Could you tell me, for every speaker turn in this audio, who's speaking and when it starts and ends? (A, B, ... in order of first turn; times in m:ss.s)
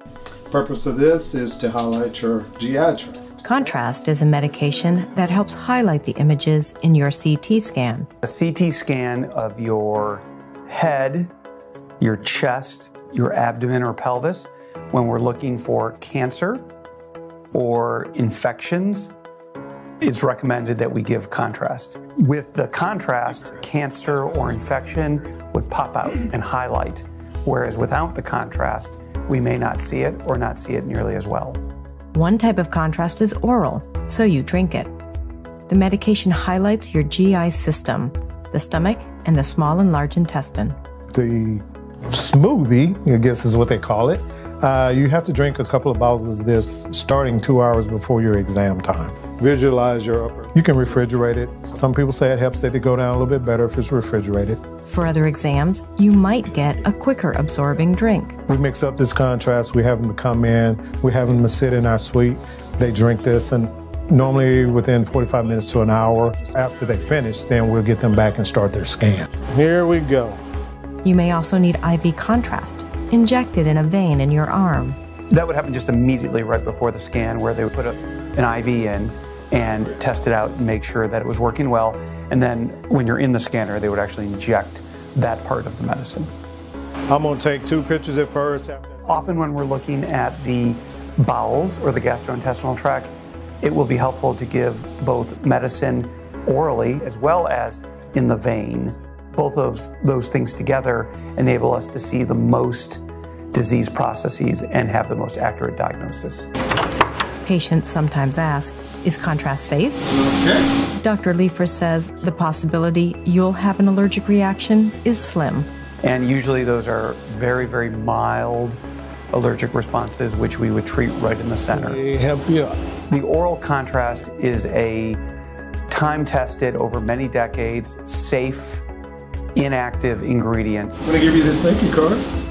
0:00.5-0:03.4 A
0:03.4-0:08.1 B
0:08.2-0:11.3 C
0:12.0-0:16.7 C
0:17.5-0:19.1 C
0:20.0-0:31.6 C
0:32.1-0:34.9 B
0:35.7-0:40.8 B
0:41.1-0:54.6 A
0:54.8-0:58.4 B
0:58.5-1:10.4 A
1:11.0-1:15.0 B
1:15.3-1:26.3 C
1:27.1-1:29.0 A
1:29.0-1:46.5 C
1:47.4-1:50.0 B
1:50.2-1:50.6 A
1:51.0-1:55.7 B
1:56.0-1:58.8 C
1:59.3-2:02.0 C
2:01.7-2:02.7 A
2:03.1-2:05.2 C
2:05.9-2:08.8 C
2:09.5-2:10.9 C
2:11.0-2:12.2 A